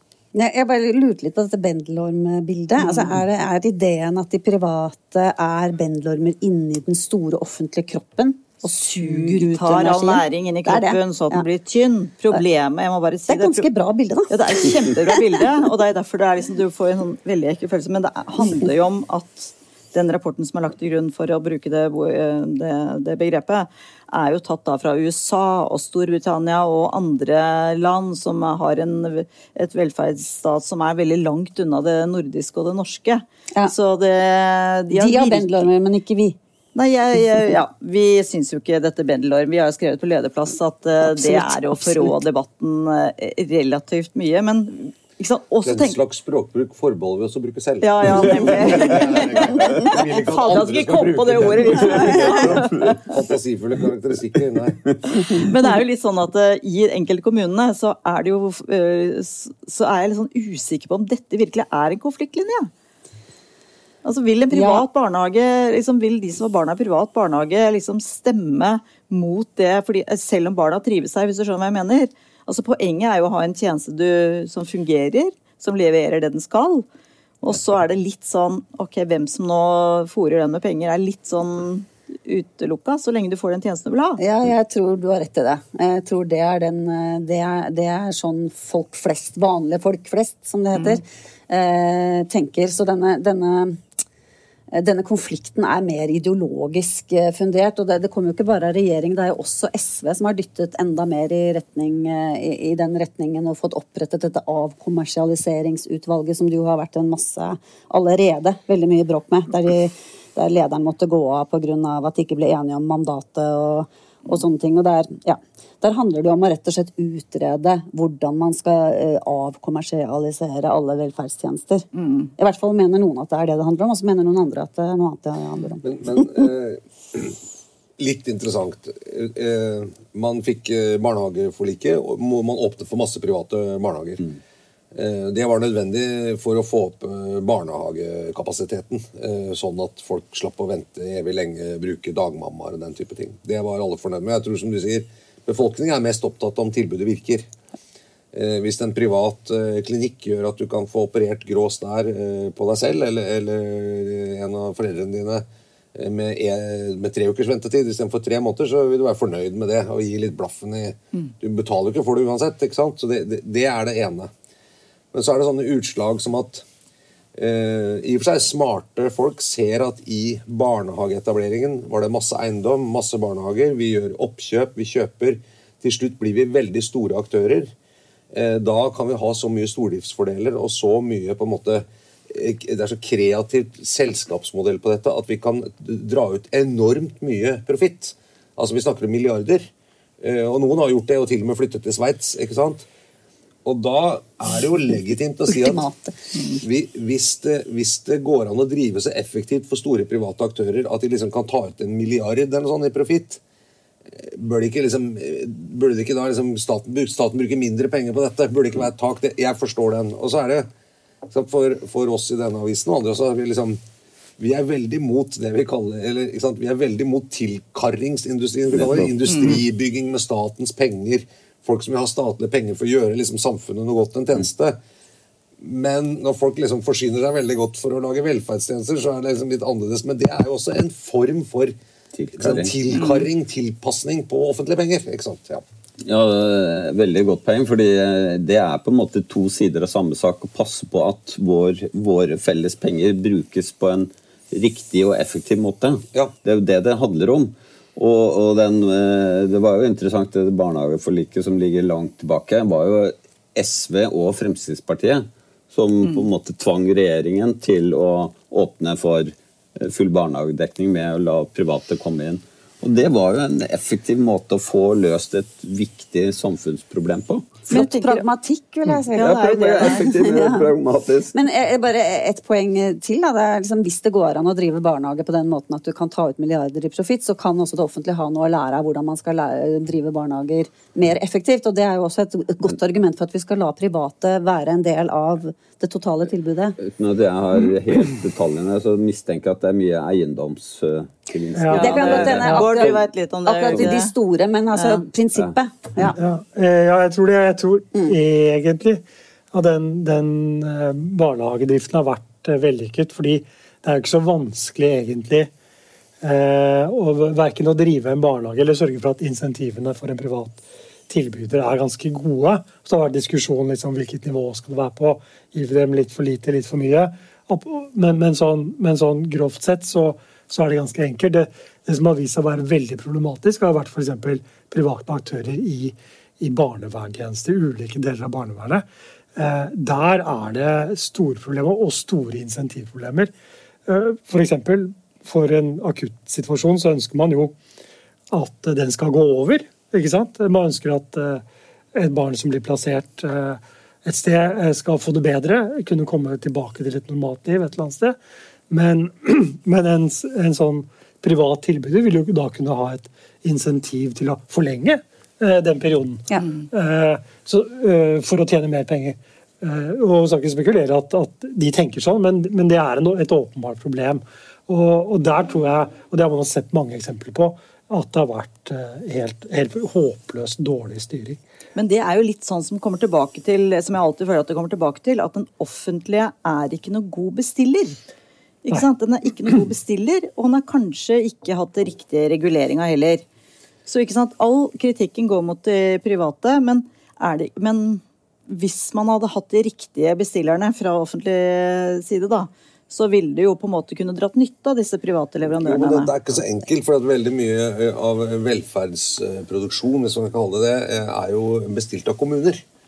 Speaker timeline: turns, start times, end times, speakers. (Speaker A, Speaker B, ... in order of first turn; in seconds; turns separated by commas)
Speaker A: 0.3-11.4, Speaker B: 2.8-3.2, Speaker B: 9.0-13.7, Speaker A: 13.3-15.4, Speaker B: 14.3-35.6, Speaker A: 34.9-36.4, Speaker B: 36.7-46.0, Speaker A: 41.0-42.1, Speaker C: 45.6-55.0, Speaker B: 47.8-53.1, Speaker B: 55.2-62.7, Speaker B: 64.0-76.8, Speaker A: 64.5-64.8, Speaker B: 77.4-84.2, Speaker A: 84.2-93.8, Speaker B: 90.7-91.0, Speaker A: 94.7-126.4, Speaker B: 121.9-122.3, Speaker C: 125.8-127.4, Speaker C: 128.0-134.2, Speaker C: 134.9-147.4, Speaker C: 148.3-164.3, Speaker C: 165.1-166.6, Speaker C: 167.3-177.7, Speaker C: 178.3-189.7, Speaker C: 190.2-192.9, Speaker C: 193.6-195.9, Speaker A: 195.5-196.4, Speaker C: 196.5-203.4, Speaker C: 204.1-210.7, Speaker C: 211.3-213.8, Speaker C: 214.4-224.8, Speaker D: 218.8-219.1, Speaker B: 219.3-219.5, Speaker C: 225.6-231.7, Speaker D: 232.1-232.7, Speaker C: 232.4-235.6, Speaker B: 232.9-233.2, Speaker D: 236.0-267.7, Speaker B: 267.7-268.2, Speaker A: 267.7-270.7, Speaker B: 269.1-270.2, Speaker D: 269.1-271.3, Speaker A: 271.3-286.8, Speaker D: 286.8-292.6, Speaker E: 291.5-292.7, Speaker B: 291.7-294.1, Speaker A: 291.7-296.2, Speaker B: 294.7-295.0, Speaker E: 296.1-299.0, Speaker E: 299.5-305.5, Speaker E: 306.2-333.3, Speaker E: 333.9-337.6, Speaker E: 338.3-341.4, Speaker E: 341.9-348.2, Speaker E: 348.7-371.4, Speaker B: 371.7-378.0, Speaker B: 378.6-383.2, Speaker B: 383.9-396.1, Speaker C: 395.6-402.6